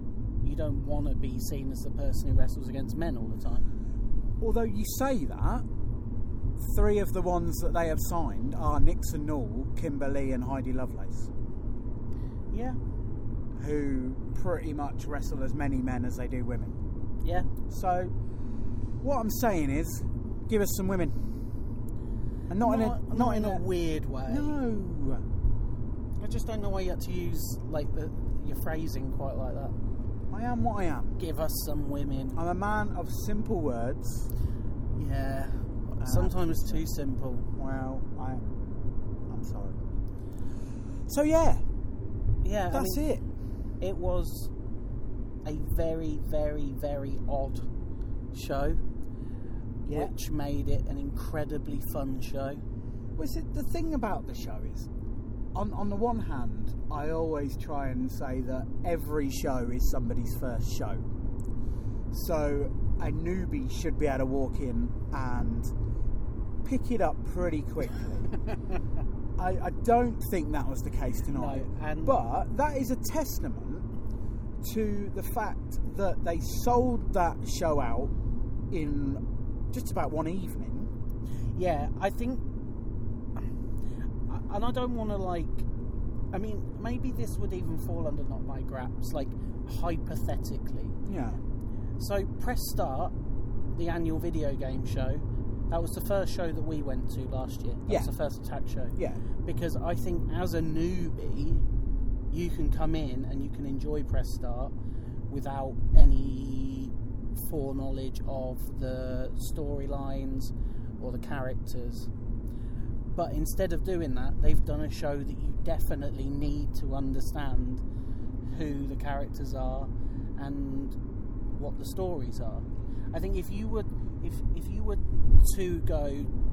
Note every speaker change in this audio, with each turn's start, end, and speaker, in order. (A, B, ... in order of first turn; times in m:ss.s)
0:00.4-0:03.6 A
0:04.4-0:05.6 B
0:06.6-0:11.3 B
0:12.5-0:12.8 A
0:13.6-0:16.8 B
0:17.2-0:17.5 A
0:17.6-0:18.1 B
0:19.0-0:21.3 B
0:22.5-0:23.6 B
0:22.6-0:24.6 A
0:24.3-0:25.2 B
0:26.2-0:29.7 A
0:30.3-0:31.2 B
0:31.2-0:32.4 A
0:32.3-0:34.3 B
0:34.9-0:37.5 A
0:36.0-0:36.8 B
0:37.5-0:38.4 B
0:39.3-0:39.8 B
0:41.1-0:41.6 B
0:42.4-0:43.0 A
0:42.7-0:43.2 B
0:43.8-0:44.5 A
0:45.4-0:47.7 A
0:48.3-0:48.8 A
0:49.9-0:52.6 A
0:49.9-0:50.1 B
0:53.2-0:54.9 B
0:55.5-1:01.1 B
1:02.1-1:05.7 B
1:06.6-1:08.3 B
1:09.4-1:13.9 B
1:11.3-1:12.2 A
1:14.6-1:18.1 B
1:18.7-1:20.9 B
1:21.5-1:22.4 A
1:24.3-1:25.7 A
1:26.3-1:31.0 A
1:31.0-1:31.4 B
1:32.0-1:33.1 A
1:33.7-1:41.6 A
1:37.9-1:38.1 B
1:39.0-1:39.2 B
1:42.3-1:44.7 A
1:45.3-1:52.1 A
1:53.0-1:57.8 A
1:58.5-2:01.0 A
2:01.5-2:06.3 A